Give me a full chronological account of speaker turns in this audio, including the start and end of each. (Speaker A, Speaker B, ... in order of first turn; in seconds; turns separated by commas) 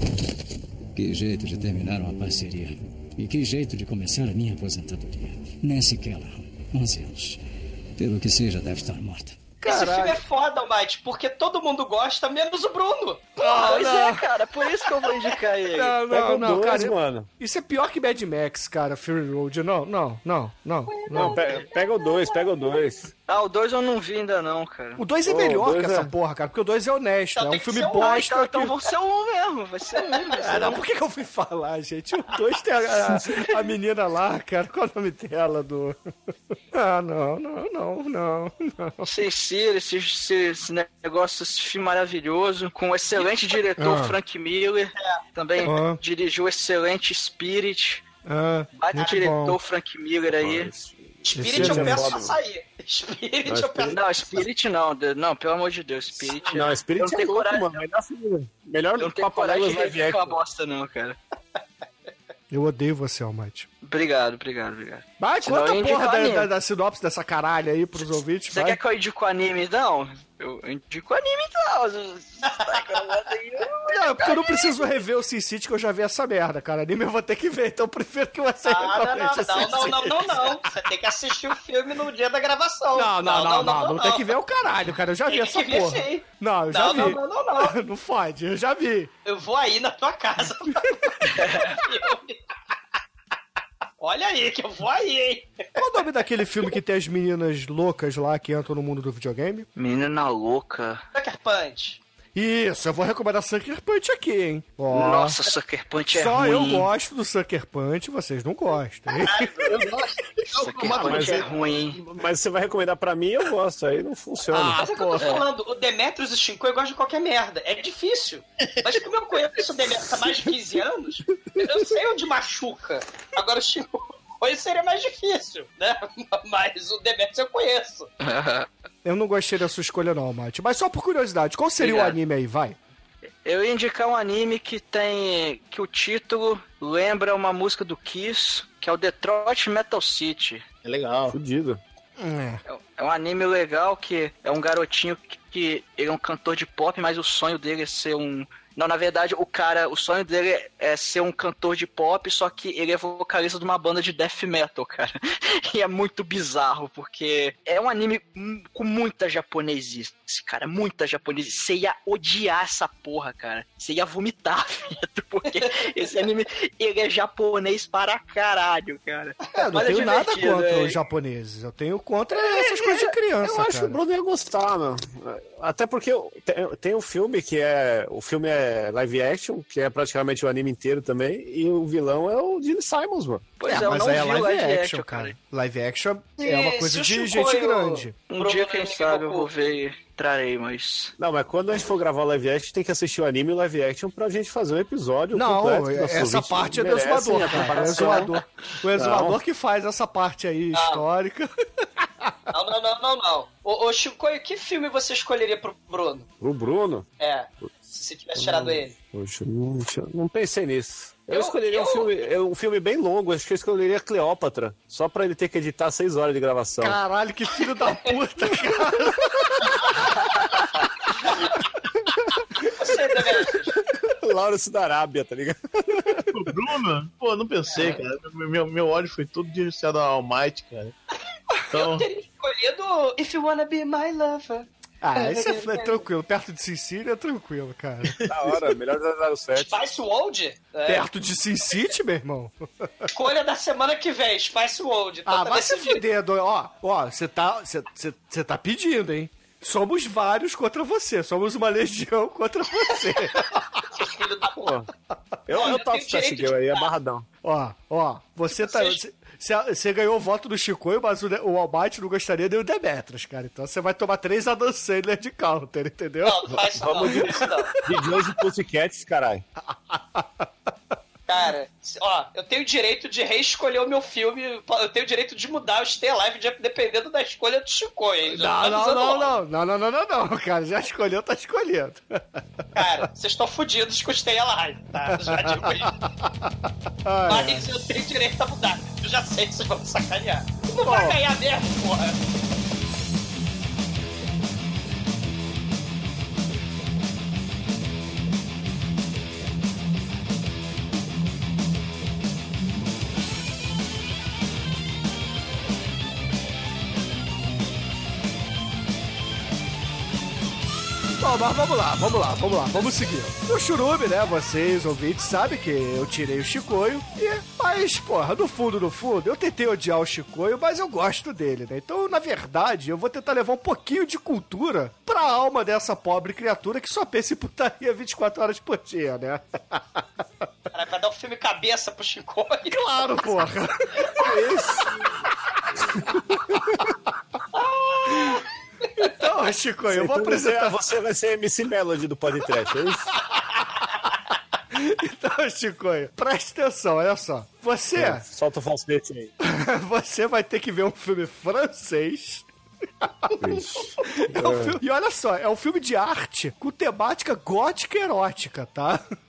Speaker A: 0.9-7.4, Speaker A: 8.0-9.4, Speaker B: 9.6-10.2, Speaker C: 9.7-13.9, Speaker B: 13.4-14.2, Speaker D: 13.5-15.9, Speaker B: 15.7-21.4, Speaker E: 16.1-17.3, Speaker C: 20.9-22.4, Speaker E: 21.1-23.1, Speaker D: 23.3-25.0, Speaker B: 25.0-28.7, Speaker E: 25.2-26.1, Speaker C: 27.3-28.2, Speaker D: 28.0-30.8, Speaker B: 30.4-36.0, Speaker B: 36.7-39.1, Speaker D: 39.0-48.0, Speaker C: 43.2-43.5, Speaker B: 43.8-44.1, Speaker B: 45.6-46.0, Speaker B: 48.2-49.6, Speaker D: 48.7-50.7, Speaker E: 50.3-52.3, Speaker C: 51.2-54.0, Speaker B: 51.4-52.0, Speaker E: 53.5-54.0, Speaker D: 53.9-57.8, Speaker E: 56.2-60.4, Speaker D: 59.0-61.2, Speaker B: 62.5-63.7, Speaker D: 63.8-66.5, Speaker B: 65.2-68.8, Speaker D: 68.5-74.5, Speaker C: 72.5-72.8, Speaker B: 73.9-80.6, Speaker C: 78.6-84.3, Speaker B: 82.9-89.1, Speaker C: 85.3-87.7, Speaker C: 89.2-92.4, Speaker D: 91.3-91.7, Speaker C: 94.0-95.5, Speaker B: 95.8-99.7, Speaker D: 99.7-101.0, Speaker C: 101.1-102.0, Speaker B: 102.3-105.3, Speaker D: 104.9-106.9, Speaker B: 106.1-109.5, Speaker C: 109.2-109.8, Speaker F: 109.7-112.0, Speaker D: 110.5-112.0, Speaker C: 110.8-111.4, Speaker E: 111.0-111.5, Speaker E: 112.0-114.8, Speaker B: 114.5-115.4, Speaker C: 114.6-128.1, Speaker D: 128.2-128.7, Speaker B: 129.0-132.8, Speaker D: 131.8-132.2, Speaker D: 133.4-140.6, Speaker F: 140.8-141.3, Speaker E: 141.3-141.8, Speaker B: 142.2-142.6, Speaker D: 142.7-170.9, Speaker B: 169.5-174.0, Speaker E: 173.4-183.4, Speaker D: 183.6-185.3, Speaker B: 183.7-188.1, Speaker C: 186.4-189.5, Speaker D: 188.3-191.1, Speaker E: 191.2-198.4, Speaker B: 195.3-201.5, Speaker E: 198.9-199.4, Speaker C: 200.7-201.0, Speaker B: 202.0-202.3, Speaker C: 202.5-206.3, Speaker E: 206.4-207.1, Speaker C: 207.2-208.9, Speaker E: 208.3-217.0, Speaker C: 211.3-212.1, Speaker B: 216.8-220.1, Speaker C: 217.9-218.1, Speaker C: 220.5-221.5, Speaker C: 222.6-223.8, Speaker E: 224.1-226.1, Speaker F: 226.3-230.9, Speaker C: 227.7-228.0, Speaker F: 231.7-232.1, Speaker C: 231.8-236.0, Speaker B: 235.0-238.1, Speaker E: 238.3-239.8, Speaker C: 239.5-241.1, Speaker B: 240.9-243.1, Speaker C: 243.1-246.0, Speaker B: 245.3-253.6, Speaker C: 253.9-254.7, Speaker E: 254.6-254.9, Speaker E: 255.5-257.2, Speaker C: 255.5-256.9, Speaker B: 257.4-266.5, Speaker C: 258.5-259.0, Speaker C: 266.2-267.7, Speaker E: 266.5-269.4, Speaker B: 267.0-267.8, Speaker B: 269.7-270.5, Speaker C: 271.3-279.4, Speaker B: 278.3-282.8, Speaker C: 282.7-285.9, Speaker B: 285.1-286.5, Speaker B: 287.0-287.6, Speaker C: 287.2-292.2, Speaker B: 290.8-291.2, Speaker B: 311.2-330.0, Speaker C: 330.7-333.4, Speaker B: 332.7-334.2, Speaker E: 334.2-335.0, Speaker C: 337.5-338.5, Speaker B: 339.0-340.8, Speaker E: 339.9-343.1, Speaker B: 344.7-348.2, Speaker E: 347.9-349.3, Speaker B: 349.4-352.4, Speaker B: 353.0-353.3, Speaker E: 353.4-354.8, Speaker B: 354.1-359.0